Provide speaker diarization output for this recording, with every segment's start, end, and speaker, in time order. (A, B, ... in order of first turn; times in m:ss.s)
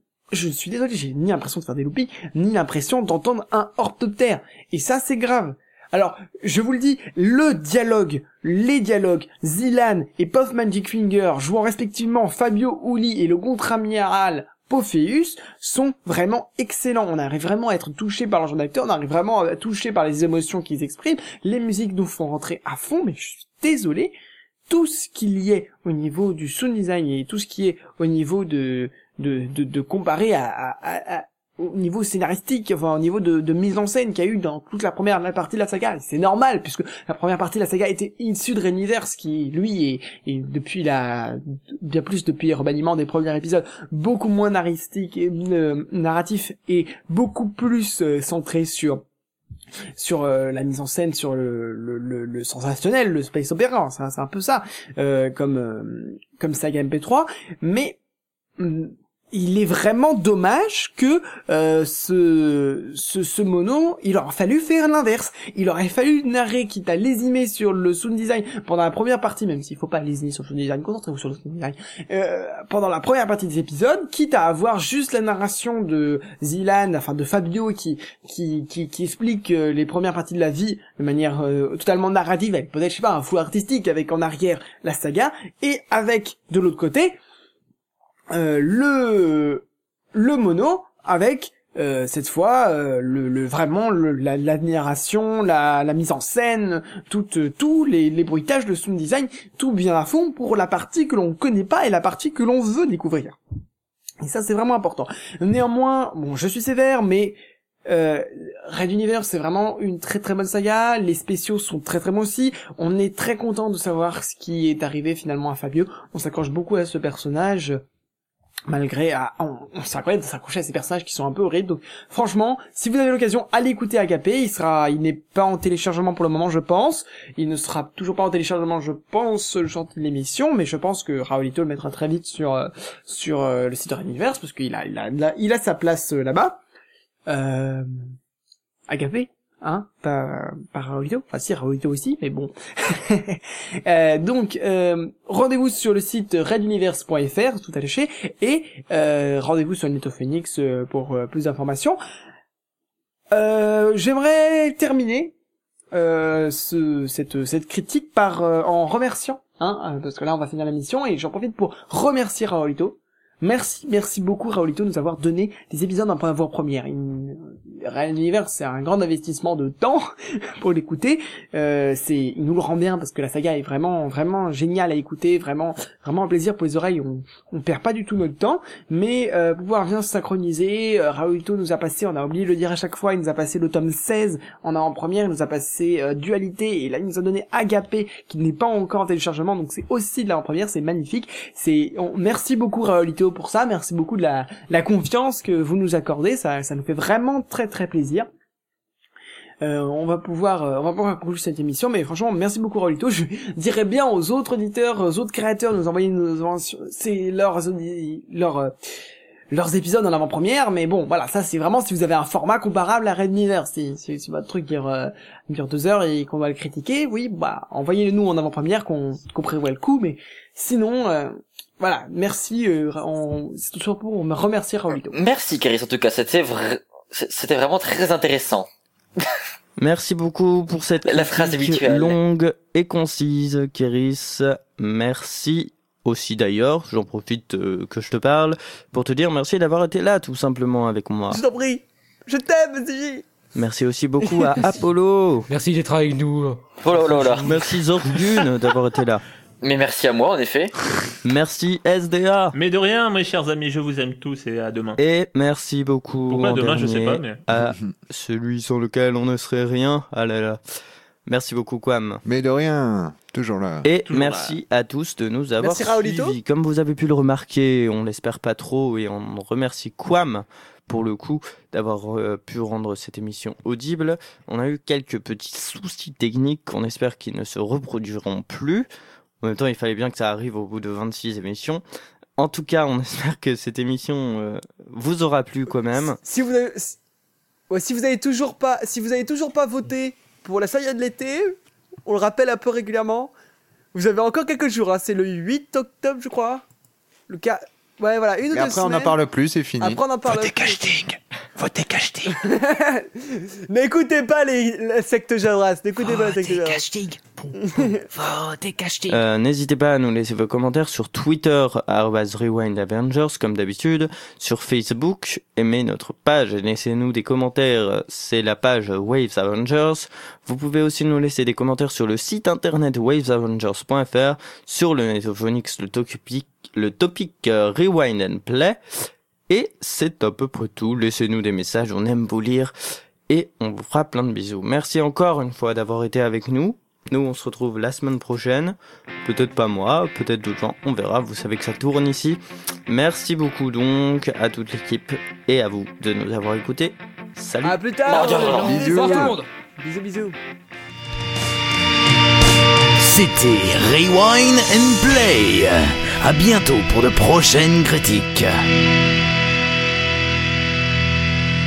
0:00.3-0:24.1 A
0:24.7-0:49.0 A
0:50.0-0:58.0 A
0:58.6-1:27.2 A
1:28.3-1:43.4 A
1:44.2-1:57.8 A
1:58.7-2:16.6 A
2:17.3-2:18.0 A
2:18.9-2:32.0 A
2:33.3-2:35.3 A
2:35.9-3:18.3 A
3:19.6-3:28.7 A
3:29.5-3:45.2 A
3:45.1-3:48.7 B
3:49.8-4:01.4 C
3:51.0-3:52.2 B
4:01.3-4:03.2 A
4:03.5-4:05.5 C
4:04.2-4:04.7 A
4:05.5-4:07.5 D
4:06.8-4:07.5 B
4:07.4-4:09.2 C
4:09.6-4:10.7 B
4:11.2-4:12.5 C
4:12.5-4:15.0 E
4:15.0-4:20.6 C
4:16.3-4:17.4 E
4:21.2-4:22.2 C
4:22.2-4:23.8 F
4:23.8-4:38.9 C
4:24.0-4:24.6 E
4:25.6-4:26.4 A
4:39.4-4:41.8 C
4:42.4-4:46.2 C
4:46.2-4:47.0 A
4:47.7-4:53.3 A
4:53.9-4:56.6 A
4:57.3-4:59.2 A
4:58.5-5:00.0 F
4:59.8-5:00.8 A
5:00.3-5:02.3 G
5:02.2-5:06.9 A
5:06.0-5:09.2 G
5:07.6-5:08.0 A
5:09.1-5:28.8 C
5:29.5-5:32.7 C
5:33.3-5:47.8 C
5:47.6-5:50.4 A
5:48.0-5:48.7 B
5:48.1-5:49.5 D
5:48.6-5:49.3 F
5:53.0-5:58.5 G